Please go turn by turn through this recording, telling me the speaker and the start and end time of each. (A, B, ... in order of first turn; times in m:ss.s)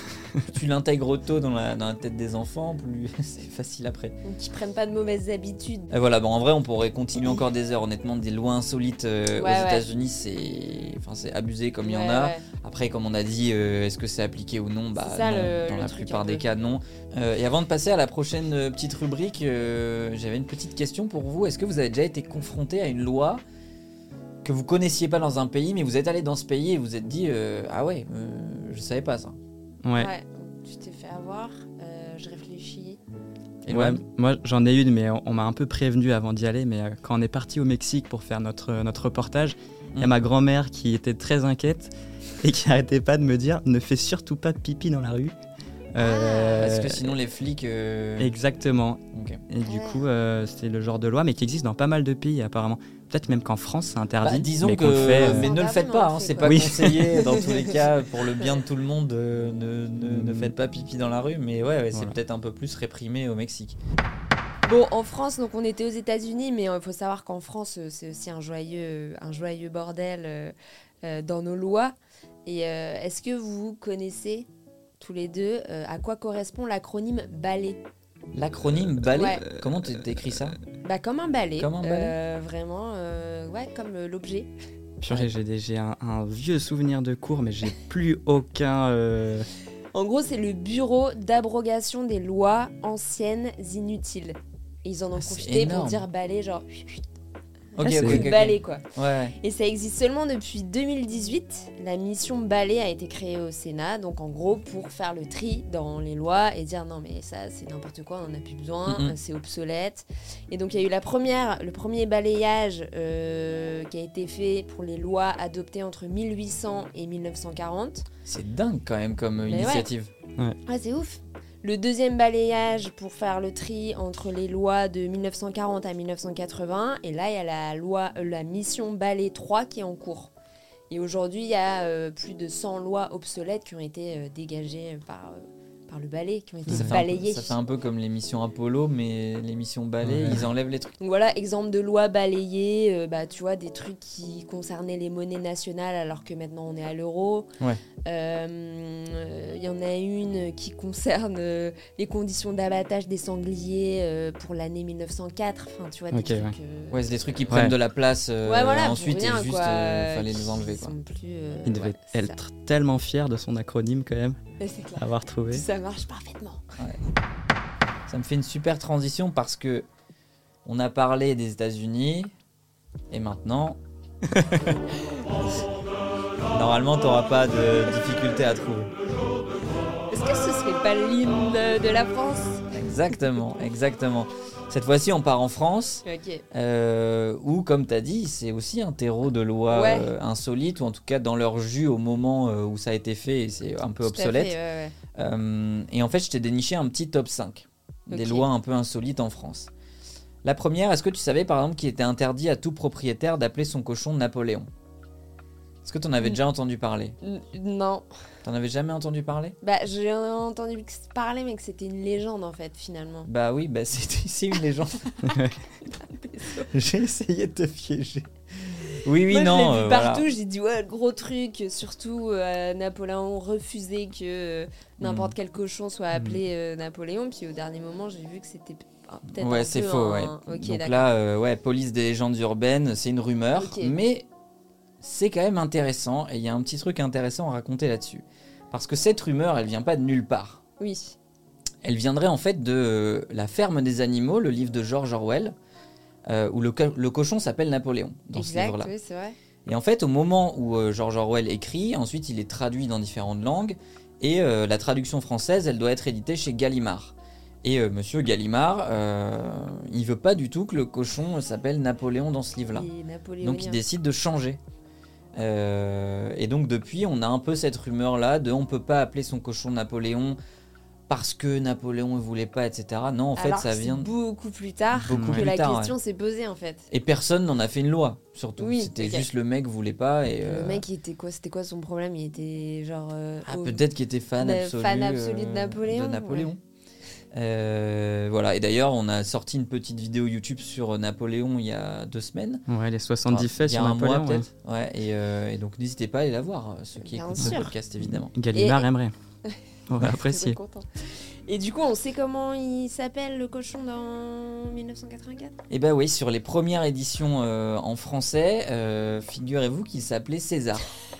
0:00.2-0:00.5 A
0:00.4-0:04.2 B
0:04.2-0:05.9 C
0:05.9-0:23.4 B
0:09.4-0:09.8 C
0:11.8-0:12.4 C
0:15.0-0:16.4 C
0:24.4-0:29.4 B
0:29.8-0:30.1 A
0:30.0-0:33.0 C
0:33.6-0:34.0 B
0:33.6-0:45.4 A
0:45.9-0:47.1 A
0:46.0-0:46.8 C
0:46.6-0:48.3 B
0:48.2-0:55.5 A
0:49.1-0:49.4 B
0:49.6-0:50.0 C
0:54.2-1:03.8 B
0:55.1-0:57.9 C
0:56.4-0:57.2 A
1:00.1-1:00.5 A
1:04.6-1:14.5 C
1:15.0-1:17.8 C
1:18.3-1:20.6 B
1:19.1-1:19.4 C
1:19.5-1:20.0 A
1:20.8-1:24.5 C
1:21.6-1:22.2 B
1:25.0-1:29.5 A
1:29.9-1:37.0 C
1:35.2-1:36.0 B
1:37.7-1:38.8 C
1:37.8-1:39.3 B
1:37.8-1:38.3 A
1:39.4-1:58.1 C
1:48.8-1:49.2 B
1:58.3-2:00.1 B
1:59.5-1:59.9 C
2:00.6-2:10.3 C
2:10.9-2:17.6 C
2:16.7-2:17.0 A
2:16.7-2:20.9 B
2:20.0-2:20.5 A
2:21.0-2:27.5 C
2:28.0-2:37.4 C
2:36.1-2:36.5 A
2:36.9-2:40.9 B
2:37.5-2:37.8 A
2:38.4-2:42.4 C
2:41.6-2:44.4 A
2:44.6-2:46.6 C
2:45.0-2:45.6 A
2:48.1-2:49.9 B
2:50.6-2:52.3 B
2:53.1-2:53.8 B
2:54.3-2:54.6 A
2:54.9-2:55.2 C
2:56.5-2:58.9 B
3:00.1-3:02.6 C
3:02.7-3:14.6 B
3:06.0-3:06.4 C
3:09.7-3:10.1 C
3:14.0-3:14.9 C
3:15.2-3:19.7 B
3:18.1-3:18.5 C
3:20.4-3:24.7 B
3:25.8-3:27.2 B
3:27.2-3:28.0 C
3:28.4-3:29.6 B
3:29.6-3:33.3 C
3:33.2-3:35.1 B
3:35.3-3:35.6 A
3:35.8-3:36.7 C
3:36.7-3:40.3 B
3:39.3-3:51.1 C
3:45.0-3:45.3 B
3:49.3-3:54.2 B
3:53.5-3:54.0 C
3:55.0-4:00.6 B
4:00.8-4:01.2 C
4:01.8-4:05.5 B
4:06.3-4:08.9 B
4:08.3-4:09.4 C
4:09.6-4:22.9 B
4:22.7-4:23.8 C
4:23.4-4:24.6 B
4:25.3-4:30.4 B
4:31.1-4:34.1 B
4:33.4-4:36.9 C
4:34.9-4:35.9 B
4:35.1-4:35.4 A
4:36.9-4:40.8 B
4:38.6-4:39.3 C
4:40.4-4:43.8 C
4:43.4-4:46.6 B
4:44.4-4:46.5 C
4:47.3-4:52.6 B
4:52.7-4:54.5 A
4:53.3-4:58.3 B
4:57.0-4:57.7 C
4:57.4-4:59.1 A
4:58.5-4:58.8 C
4:59.4-5:05.5 C
4:59.9-5:00.6 A
5:05.7-5:10.9 B